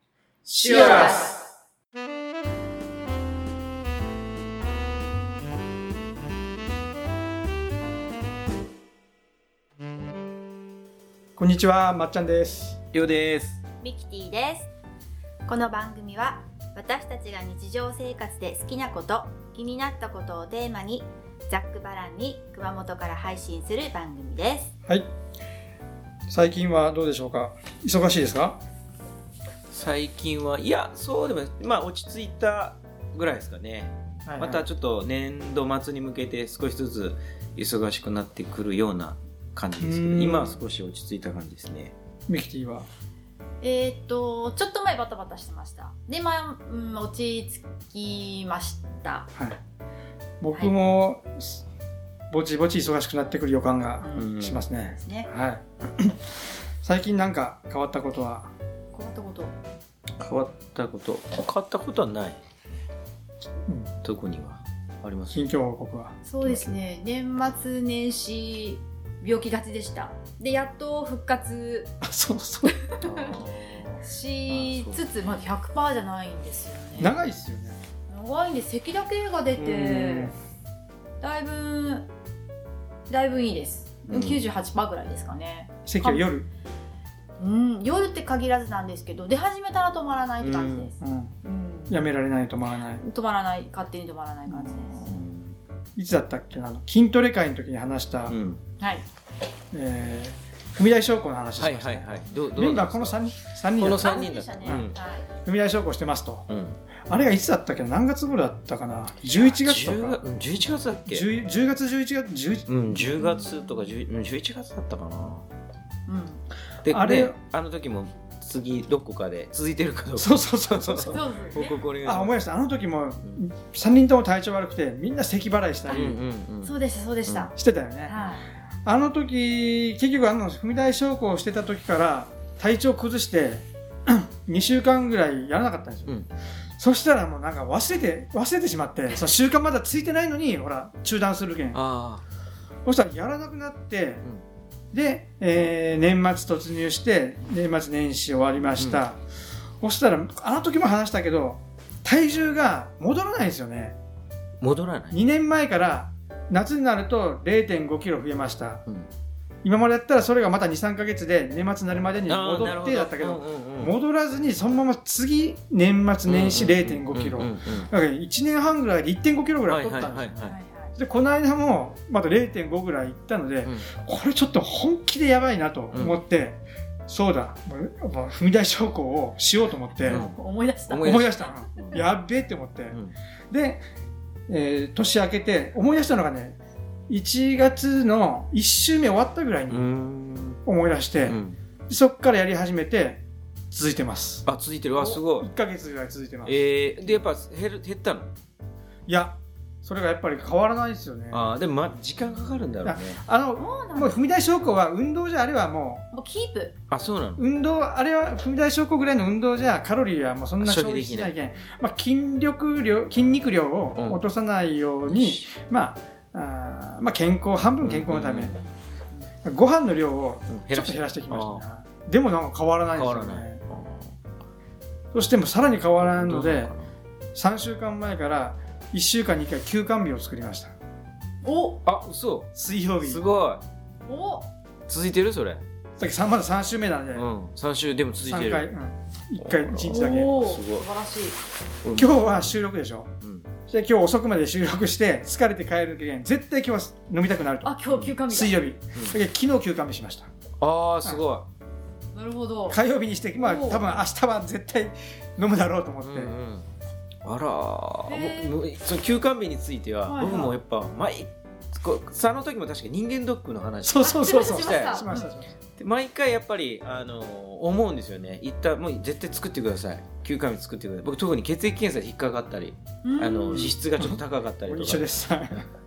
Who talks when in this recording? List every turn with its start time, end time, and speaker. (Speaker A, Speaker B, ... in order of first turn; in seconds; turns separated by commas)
Speaker A: 0.5-1.4, Speaker B: 0.6-1.3, Speaker C: 0.7-1.2, Speaker D: 11.4-12.8, Speaker A: 12.9-13.6, Speaker B: 13.8-14.7, Speaker B: 15.5-24.7, Speaker D: 26.3-28.6, Speaker A: 29.7-41.9, Speaker D: 34.3-34.6, Speaker D: 39.8-40.6, Speaker D: 42.3-42.9, Speaker C: 43.6-49.3, Speaker D: 49.3-49.6, Speaker D: 50.4-51.6, Speaker D: 52.3-58.5, Speaker C: 54.0-55.3, Speaker A: 54.1-54.6, Speaker C: 58.9-59.5, Speaker A: 60.2-62.8, Speaker D: 63.7-63.9, Speaker A: 64.0-65.4, Speaker D: 65.3-66.7, Speaker C: 66.2-71.9, Speaker D: 72.0-72.8, Speaker C: 72.8-73.4, Speaker A: 73.0-75.0, Speaker C: 74.0-77.1, Speaker D: 77.0-77.8, Speaker C: 78.1-80.3, Speaker D: 79.5-80.3, Speaker C: 81.2-82.1, Speaker C: 83.1-86.2, Speaker A: 84.1-84.4, Speaker D: 85.8-86.5, Speaker C: 87.4-92.0, Speaker A: 90.4-90.9, Speaker D: 91.0-91.3, Speaker D: 91.9-93.0, Speaker C: 93.0-95.0, Speaker D: 94.5-95.0, Speaker A: 95.0-95.6, Speaker D: 96.0-98.3, Speaker A: 98.3-98.6, Speaker D: 99.7-106.5, Speaker A: 101.6-103.1, Speaker A: 103.8-104.9, Speaker C: 104.0-105.3, Speaker A: 106.5-106.8, Speaker D: 107.1-110.2, Speaker A: 109.3-111.3, Speaker D: 111.1-113.1, Speaker A: 112.7-115.4, Speaker C: 113.2-113.7, Speaker C: 116.1-116.4, Speaker A: 116.8-122.3, Speaker D: 116.9-117.3, Speaker D: 120.2-121.2, Speaker C: 121.1-121.8, Speaker D: 122.0-126.2, Speaker A: 125.9-126.7, Speaker C: 126.6-127.5, Speaker D: 127.5-128.2, Speaker C: 128.1-128.4, Speaker D: 128.8-136.2, Speaker D: 136.8-141.8, Speaker A: 141.7-142.2, Speaker D: 142.8-144.2, Speaker D: 144.9-149.2, Speaker D: 149.8-154.0, Speaker A: 154.6-155.2, Speaker D: 155.1-158.8, Speaker D: 159.6-170.4, Speaker A: 162.3-163.9, Speaker A: 166.2-167.9, Speaker A: 169.7-170.5, Speaker C: 170.4-170.9, Speaker D: 171.0-180.2, Speaker C: 180.0-182.0, Speaker A: 180.1-180.4, Speaker A: 180.9-182.0, Speaker D: 181.0-183.0, Speaker D: 183.5-183.8, Speaker D: 184.5-186.6, Speaker D: 187.1-189.9, Speaker A: 189.7-190.6, Speaker D: 190.6-194.4, Speaker A: 191.3-191.6, Speaker A: 194.4-195.5, Speaker D: 195.0-197.2, Speaker A: 196.4-198.3, Speaker D: 199.1-201.4, Speaker A: 201.3-203.2, Speaker D: 202.8-206.1, Speaker C: 203.6-204.2, Speaker C: 206.1-206.7, Speaker A: 206.9-207.4, Speaker D: 207.4-218.6, Speaker A: 210.6-211.3, Speaker A: 213.9-214.2, Speaker A: 215.1-215.4, Speaker A: 217.8-218.6, Speaker D: 219.4-223.6, Speaker A: 220.5-221.6, Speaker A: 223.0-224.1, Speaker D: 225.1-226.7, Speaker A: 226.0-226.9, Speaker D: 227.3-230.7, Speaker C: 231.4-231.8, Speaker A: 231.8-232.5, Speaker D: 232.5-233.2, Speaker A: 233.0-233.6, Speaker C: 234.1-234.5, Speaker A: 234.9-235.6, Speaker D: 236.0-237.3, Speaker A: 237.1-238.7, Speaker D: 238.2-240.4, Speaker A: 239.4-240.9, Speaker C: 239.8-241.3, Speaker A: 241.8-242.6, Speaker D: 241.9-243.1, Speaker A: 243.2-243.5, Speaker D: 243.7-250.3, Speaker C: 247.6-248.6, Speaker A: 250.6-251.5, Speaker C: 252.1-252.8, Speaker D: 252.7-256.3, Speaker C: 253.4-254.0, Speaker A: 256.0-256.7, Speaker A: 257.2-265.1, Speaker C: 258.1-258.5, Speaker C: 260.1-260.5, Speaker D: 263.8-265.5, Speaker C: 264.0-265.3, Speaker A: 265.8-275.1, Speaker C: 273.0-273.7, Speaker D: 273.5-275.6